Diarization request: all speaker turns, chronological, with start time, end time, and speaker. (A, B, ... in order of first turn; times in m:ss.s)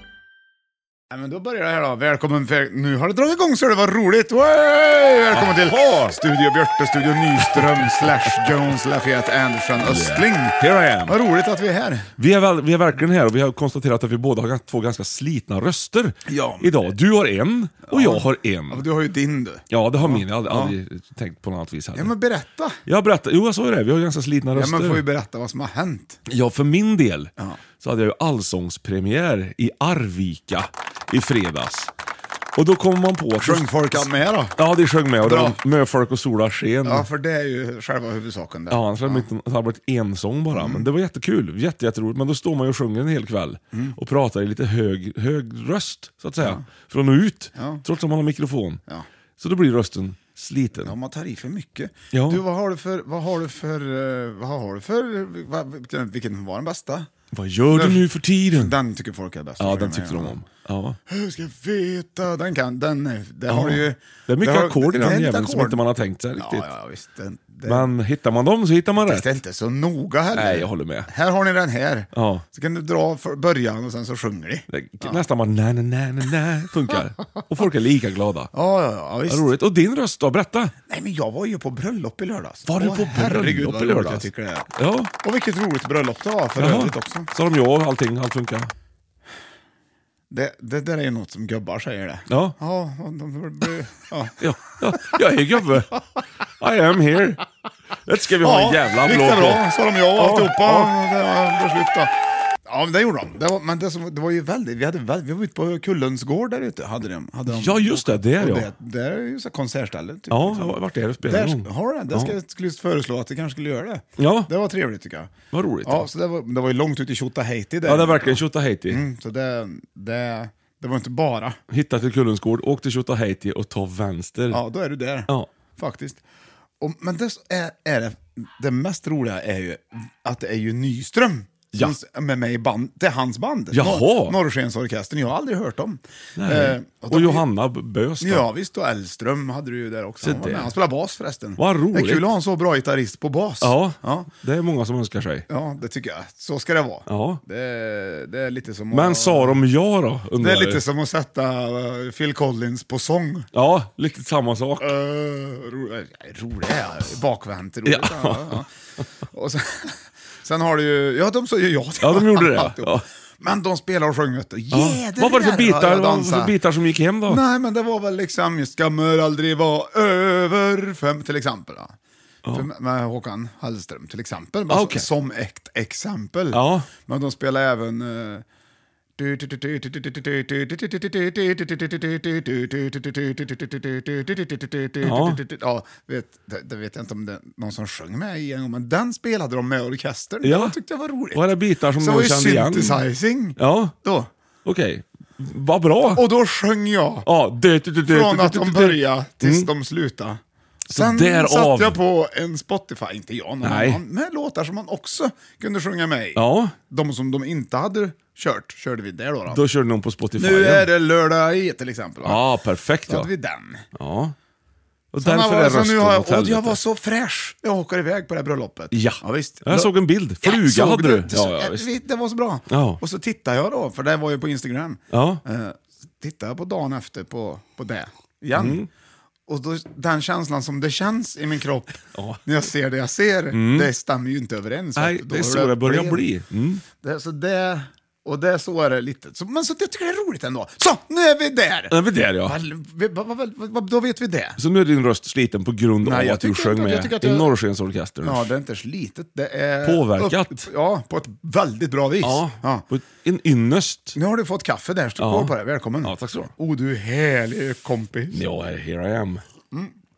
0:01.1-0:12.1 A
0:05.3-0:06.0 B
0:07.5-0:08.0 B
0:09.8-0:11.2 B
0:12.2-0:18.9 B
0:16.3-0:16.7 A
0:17.9-0:20.8 A
0:19.7-0:22.1 B
0:22.0-0:22.8 A
0:22.9-0:25.0 B
0:24.5-0:26.2 A
0:26.3-0:31.9 B
0:32.6-0:37.1 B
0:33.4-0:34.6 A
0:35.2-0:35.6 A
0:36.8-0:39.3 A
0:38.7-0:48.8 B
0:40.5-0:40.9 A
0:49.4-0:50.9 B
0:50.8-0:57.1 A
0:52.1-0:52.4 B
0:57.3-0:58.8 B
0:57.7-1:00.4 A
0:59.6-1:01.0 B
1:01.1-1:05.8 A
1:03.5-1:06.7 B
1:06.4-1:07.9 A
1:07.6-1:09.3 B
1:09.0-1:15.2 A
1:10.3-1:11.1 B
1:12.1-1:12.4 B
1:14.7-1:18.5 B
1:18.5-1:19.5 A
1:19.3-1:20.7 B
1:20.9-1:24.7 A
1:22.7-1:25.1 B
1:25.2-1:27.3 A
1:26.6-1:28.7 B
1:30.3-1:34.4 A
1:32.3-1:32.6 B
1:34.4-1:36.0 B
1:36.6-1:37.4 B
1:38.0-1:39.6 B
1:38.4-1:42.1 A
1:40.2-1:40.9 B
1:42.7-1:55.3 A
1:47.5-1:48.7 B
1:50.3-1:52.3 B
1:54.2-1:54.5 B
1:55.5-1:56.1 B
1:55.8-2:01.6 A
1:57.8-1:59.0 B
2:01.7-2:04.6 B
2:04.5-2:06.2 A
2:06.8-2:17.4 A
2:13.7-2:14.4 B
2:16.4-2:18.5 B
2:18.2-2:24.3 A
2:20.2-2:20.7 B
2:21.6-2:22.3 B
2:23.6-2:25.5 B
2:25.5-2:29.6 A
2:27.1-2:27.4 B
2:28.9-2:30.8 B
2:30.4-2:33.5 A
2:33.5-2:34.9 B
2:34.8-2:38.7 A
2:37.8-2:38.6 B
2:39.3-2:46.5 A
2:42.0-2:43.0 B
2:44.7-2:47.4 B
2:47.3-2:52.0 A
2:52.5-2:58.4 A
2:54.7-2:55.1 B
2:56.5-2:56.9 B
2:59.2-3:11.4 A
3:05.0-3:05.4 B
3:10.4-3:10.8 B
3:11.3-3:13.0 B
3:12.0-3:14.3 A
3:13.6-3:14.0 B
3:14.6-3:16.2 B
3:16.2-3:17.3 A
3:17.3-3:19.7 B
3:18.1-3:29.6 A
3:20.9-3:22.0 B
3:23.6-3:24.0 B
3:26.4-3:26.8 B
3:29.5-3:30.9 B
3:30.4-3:32.4 A
3:32.2-3:33.3 B
3:33.1-3:33.8 A
3:34.0-3:34.4 B
3:35.1-3:36.8 B
3:35.2-3:39.9 A
3:38.9-3:41.9 B
3:40.4-3:48.8 A
3:42.7-3:43.0 B
3:45.1-3:45.4 B
3:48.5-3:48.9 B
3:49.5-3:56.2 A
3:52.1-3:52.4 B
3:53.5-3:53.9 B
3:55.0-3:56.8 B
3:57.0-4:04.6 A
4:01.9-4:02.6 B
4:04.6-4:08.5 B
4:06.0-4:07.5 A
4:08.2-4:12.8 A
4:09.8-4:10.7 B
4:12.2-4:14.2 B
4:14.2-4:18.4 A
4:15.2-4:16.5 B
4:18.3-4:19.4 B